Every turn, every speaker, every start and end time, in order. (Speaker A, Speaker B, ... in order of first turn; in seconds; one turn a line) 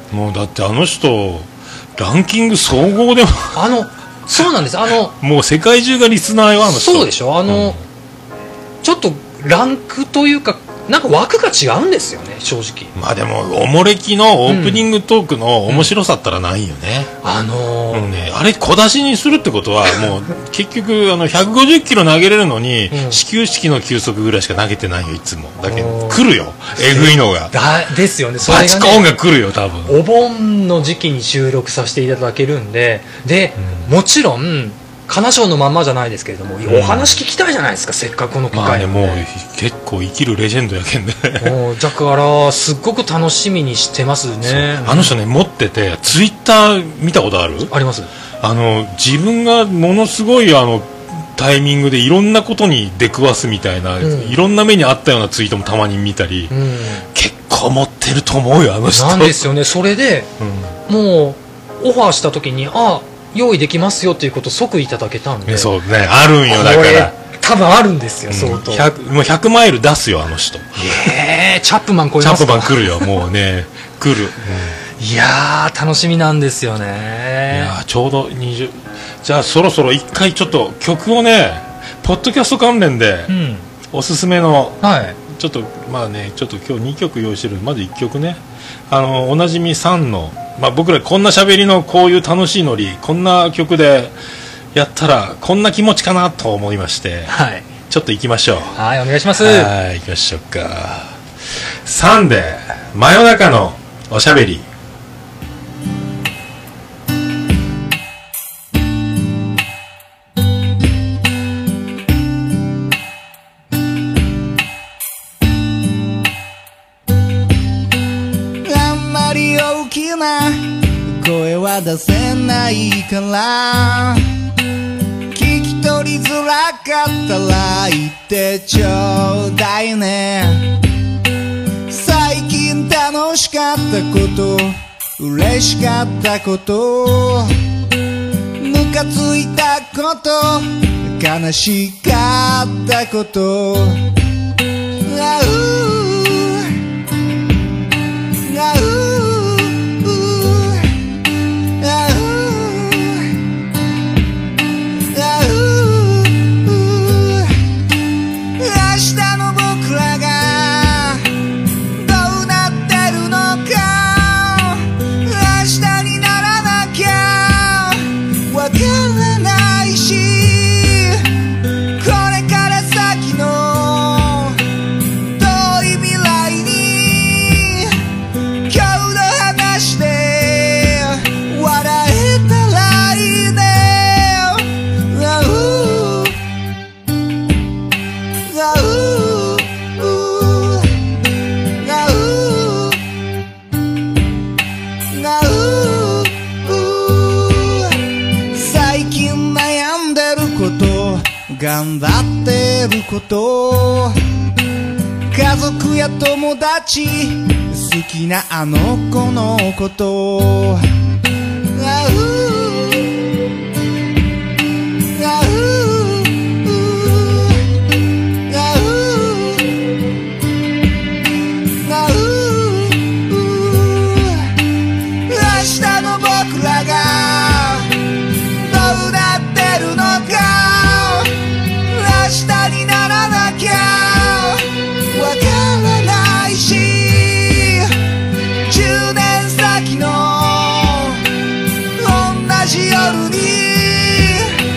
Speaker A: 0.1-3.6
Speaker B: 3.5-5.2
Speaker A: 5.2-7.8
Speaker B: 6.6-7.8
Speaker B: 8.8-12.9
Speaker A: 12.9-17.1
Speaker B: 14.5-14.9
Speaker B: 17.2-18.1
Speaker A: 17.9-27.6
Speaker B: 22.9-23.2
Speaker B: 25.6-29.1
Speaker A: 28.4-30.0
Speaker B: 29.9-39.3
Speaker A: 33.6-33.9
Speaker A: 36.6-37.1
Speaker A: 38.5-41.6
Speaker B: 41.4-45.2
Speaker A: 44.4-47.7
Speaker B: 47.7-48.1
Speaker A: 48.4-56.5
Speaker B: 54.0-54.4
Speaker B: 56.5-57.1
Speaker A: 57.1-59.5
Speaker B: 58.9-60.3
Speaker A: 60.4-60.8
Speaker B: 60.9-65.7
Speaker A: 65.5-67.1
Speaker B: 66.5-68.9
Speaker A: 68.3-71.1
Speaker B: 70.8-73.1
Speaker A: 72.2-74.8
Speaker B: 75.0-77.7
Speaker A: 77.5-83.3
Speaker B: 83.3-83.7
Speaker A: 83.9-94.2
Speaker B: 84.8-85.2
Speaker A: 94.7-97.3
Speaker B: 97.3-97.7
Speaker A: 97.9-98.8
Speaker B: 98.8-99.7
Speaker A: 99.4-101.2
Speaker A: 101.8-104.7
Speaker C: 118.6-124.2
Speaker C: 125.3-130.7
Speaker C: 131.9-137.5
Speaker C: 138.6-144.0
Speaker C: 145.0-146.7
Speaker C: 148.4-150.9
Speaker C: 151.8-153.3
Speaker C: 155.1-157.6
Speaker C: 158.6-161.3
Speaker C: 161.9-171.3
Speaker C: 172.0-174.6
Speaker C: 175.4-177.9
Speaker C: 178.7-186.4
Speaker C: 188.4-190.9
Speaker C: 191.8-193.0
Speaker C: 195.1-198.0
Speaker C: 198.5-204.2
Speaker C: 205.3-210.8
Speaker C: 211.8-213.2
Speaker C: 215.1-217.6
Speaker C: 218.5-219.8
Speaker C: 221.8-224.5
Speaker C: 225.3-227.9
Speaker C: 228.6-231.3
Speaker C: 231.9-237.9
Speaker C: 238.7-241.2
Speaker C: 242.0-244.6